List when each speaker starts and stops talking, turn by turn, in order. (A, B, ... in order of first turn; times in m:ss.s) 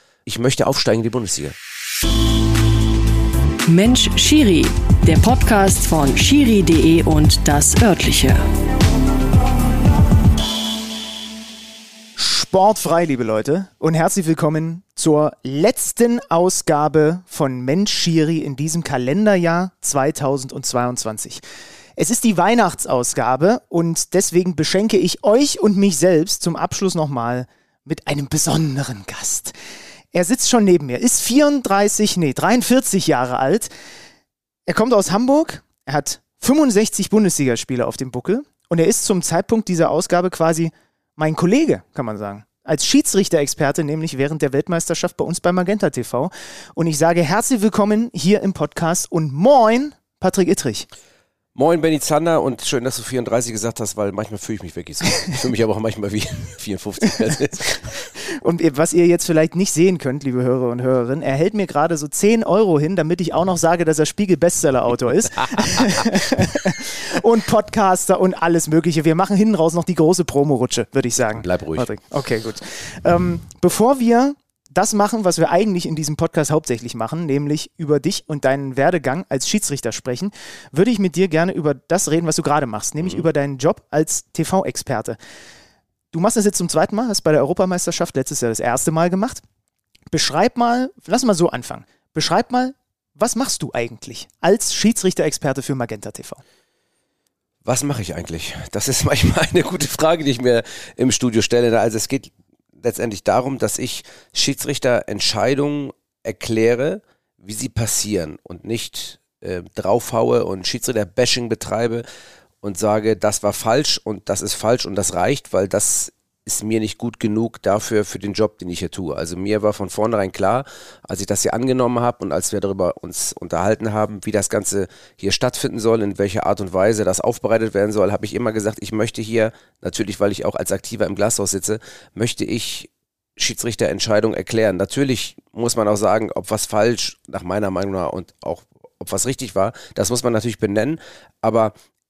0:00.3-0:01.6 A
0:03.7-0:08.4 B
0:12.2-0:21.4 C
0:22.0-0:29.5 C
0:30.1-0:33.7 C
0:34.7-0:50.9 C
0:51.6-0:58.0 A
0:58.2-1:25.2 C
1:11.3-1:11.9 A
1:23.0-1:23.3 A
1:26.1-1:29.4 C
1:30.1-1:36.4 C
1:37.6-1:52.0 A
1:52.6-2:21.7 A